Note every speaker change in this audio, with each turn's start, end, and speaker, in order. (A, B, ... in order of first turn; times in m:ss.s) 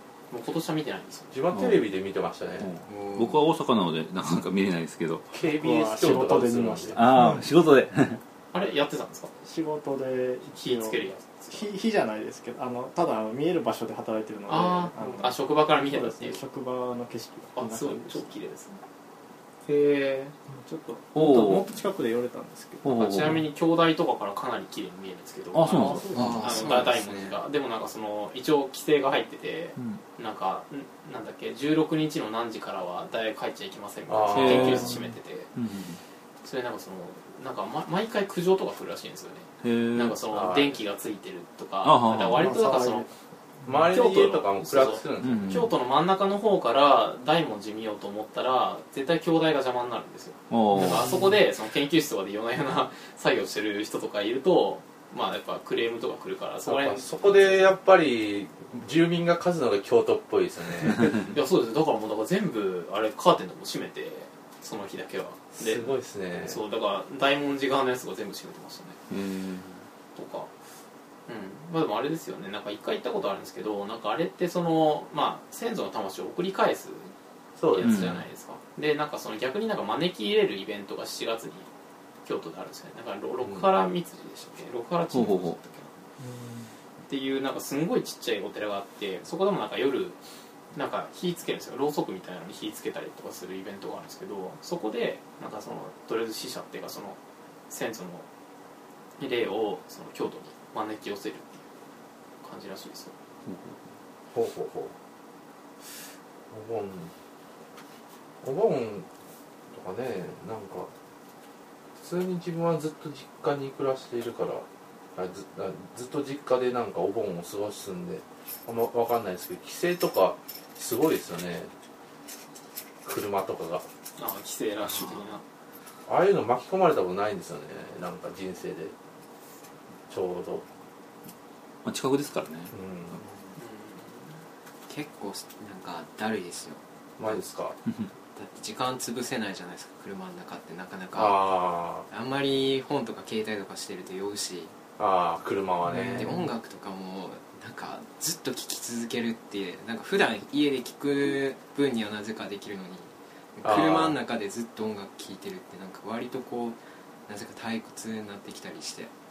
0:00.3-0:01.4 A
0:01.3-0:02.7 B
0:01.5-0:01.8 C
0:02.6-0:05.3 C
0:02.8-0:03.4 D
0:05.3-0:07.0 B
0:05.4-0:07.5 E
0:06.9-0:08.2 C
0:08.5-0:09.3 A
0:09.4-0:18.3 E
0:10.5-0:11.7 A
0:14.5-0:16.4 A
0:17.5-0:18.8 A
0:19.6-0:20.3 A
0:20.5-0:22.9 E
0:21.1-0:21.7 C
0:22.8-0:23.5 C
0:22.9-0:35.5 A
0:25.5-0:26.4 C
0:25.8-0:26.3 E
0:26.1-0:27.4 D
0:29.8-0:30.0 C
0:34.1-0:34.9 B
0:34.3-0:36.0 C
0:36.4-0:43.1 A
0:39.6-0:40.2 C
0:40.3-0:40.8 B
0:41.8-0:42.5 C
0:42.2-0:43.1 E
0:43.6-0:45.7 B
0:43.9-0:57.7 A
0:45.2-0:45.7 C
0:50.5-0:51.2 C
0:56.6-1:01.3 B
1:01.3-1:09.0 A
1:05.6-1:06.6 B
1:09.1-1:09.7 B
1:10.2-1:10.5 A
1:11.3-1:17.1 A
1:17.6-1:18.2 B
1:17.7-1:21.7 A
1:17.8-1:18.2 C
1:22.2-1:26.0 A
1:25.1-1:25.6 C
1:26.2-1:26.7 E
1:27.1-1:30.2 A
1:30.7-1:37.2 A
1:37.7-1:38.2 A
1:39.2-1:41.6 A
1:42.4-1:43.1 A
1:43.4-1:43.8 C
1:44.3-1:44.9 B
1:46.5-1:47.1 B
1:48.4-1:49.1 B
1:49.7-1:50.9 B
1:52.0-2:01.7 B
2:03.0-2:03.8 B
2:04.2-2:05.4 A
2:06.1-2:08.9 B
2:10.1-2:10.6 B
2:11.8-2:12.7 C
2:12.7-2:13.2 B
2:13.2-2:13.5 D
2:13.6-2:14.4 A
2:14.9-2:16.8 D
2:17.2-2:17.8 B
2:18.3-2:21.5 D
2:21.1-2:22.1 B
2:22.1-2:24.7 D
2:25.0-2:26.4 B
2:26.0-2:39.1 D
2:33.6-2:34.2 B